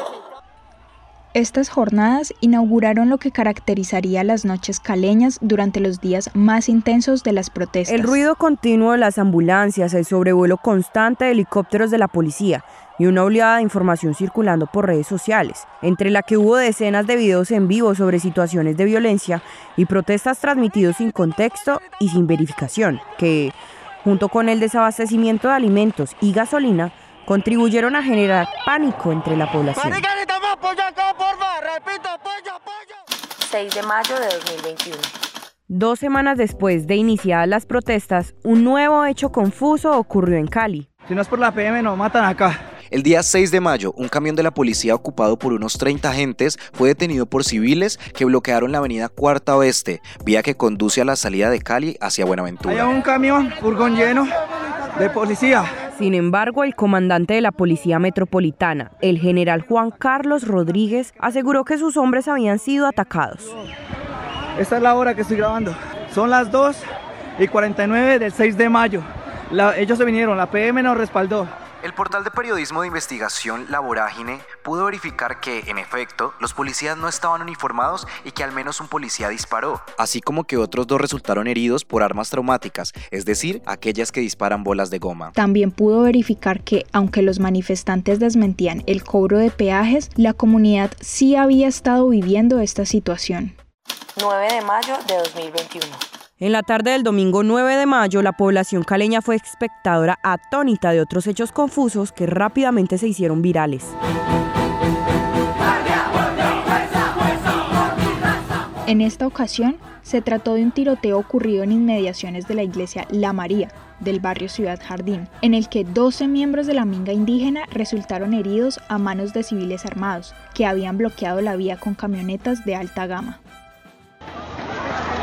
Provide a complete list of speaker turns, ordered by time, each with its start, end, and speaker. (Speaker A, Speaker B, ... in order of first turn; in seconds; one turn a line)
Speaker A: 1.3-8.2
Speaker B: 7.9-30.0
Speaker C: 33.4-35.1
Speaker B: 35.7-40.9
Speaker D: 41.1-42.5
Speaker E: 42.9-53.0
Speaker D: 52.7-54.3
Speaker D: 55.0-55.6
Speaker B: 55.9-63.5
Speaker D: 64.6-66.8
Speaker D: 67.4-69.0
Speaker D: 69.5-71.5
Speaker E: 71.8-85.3
Speaker A: 85.4-93.6
Speaker C: 94.2-96.0
Speaker B: 96.4-103.9
Speaker A: 108.9-123.4